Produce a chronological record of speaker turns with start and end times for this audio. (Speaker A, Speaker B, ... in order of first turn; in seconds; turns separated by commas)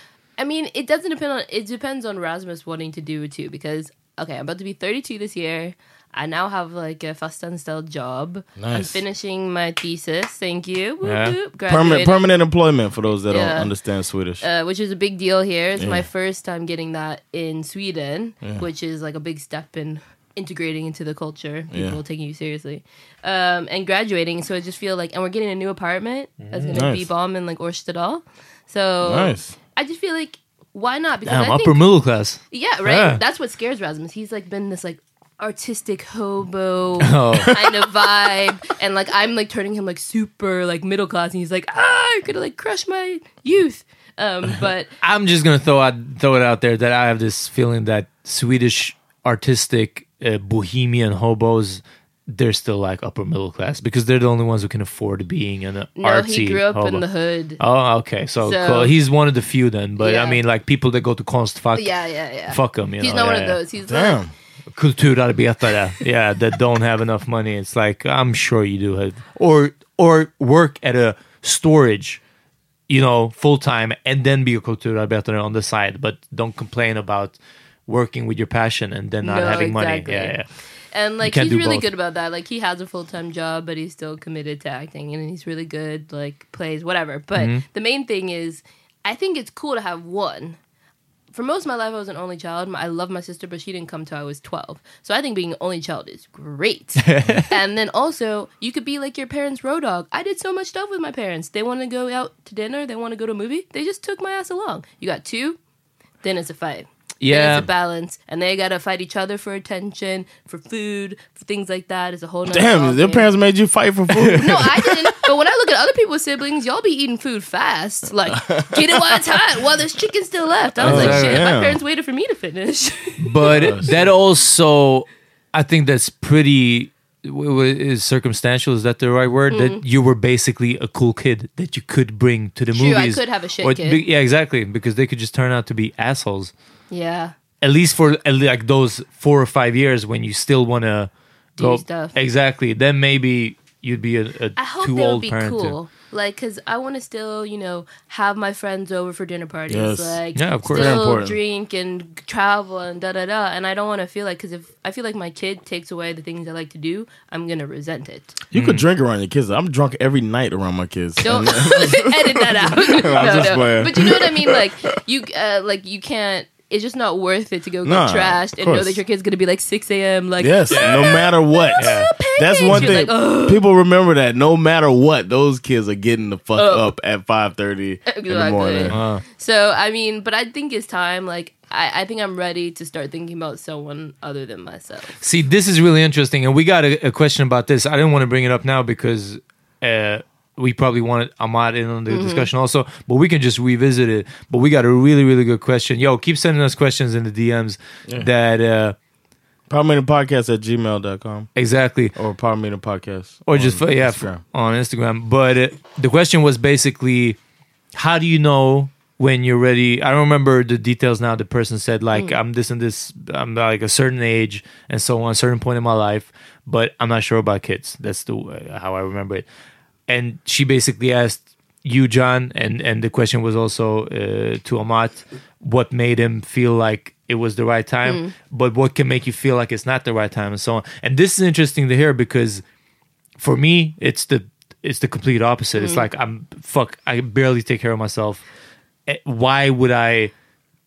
Speaker A: 0.4-12.3, Speaker B: 8.6-9.0, Speaker C: 11.0-11.3, Speaker B: 11.7-14.4, Speaker A: 13.3-13.7, Speaker A: 14.4-31.8, Speaker B: 15.8-16.1, Speaker B: 21.7-22.0, Speaker C: 26.5-26.8, Speaker B: 26.7-27.1, Speaker B: 29.0-29.5, Speaker C: 31.2-33.2, Speaker A: 32.5-44.9, Speaker C: 37.0-37.6, Speaker C: 45.0-57.0, Speaker A: 56.0-57.6, Speaker C: 57.6-61.9, Speaker A: 58.4-58.9, Speaker A: 60.0-60.4, Speaker A: 61.7-64.2, Speaker C: 62.5-63.6, Speaker B: 63.9-64.3, Speaker C: 64.7-72.2, Speaker C: 72.9-80.5, Speaker A: 79.2-80.4, Speaker A: 80.9-90.6, Speaker C: 81.2-81.9, Speaker C: 87.3-87.6, Speaker A: 91.3-105.6, Speaker C: 97.0-97.5, Speaker A: 106.2-113.3, Speaker C: 107.2-107.7, Speaker B: 112.5-115.2, Speaker A: 114.1-124.0, Speaker B: 118.3-119.3, Speaker B: 120.8-121.8, Speaker C: 120.8-121.5, Speaker C: 123.2-136.5, Speaker B: 123.5-124.0, Speaker A: 129.5-129.8, Speaker A: 132.7-134.0, Speaker A: 136.9-137.3, Speaker C: 137.6-145.8, Speaker A: 141.6-142.1, Speaker A: 144.6-158.3, Speaker B: 149.7-151.4, Speaker C: 150.3-151.1, Speaker B: 158.5-164.7, Speaker C: 158.5-158.8, Speaker A: 161.2-173.6, Speaker B: 167.8-169.0, Speaker B: 170.4-179.0, Speaker C: 170.7-172.1, Speaker C: 172.7-173.0, Speaker A: 176.6-176.9, Speaker A: 178.1-185.2, Speaker C: 178.9-179.2, Speaker C: 185.2-198.9, Speaker A: 192.1-192.5, Speaker B: 199.7-201.5, Speaker C: 201.6-202.2, Speaker B: 202.1-204.4, Speaker C: 203.4-207.4, Speaker C: 207.9-219.4, Speaker C: 220.1-232.6, Speaker A: 228.1-228.3, Speaker C: 233.4-238.4, Speaker A: 235.7-236.1, Speaker C: 239.1-240.3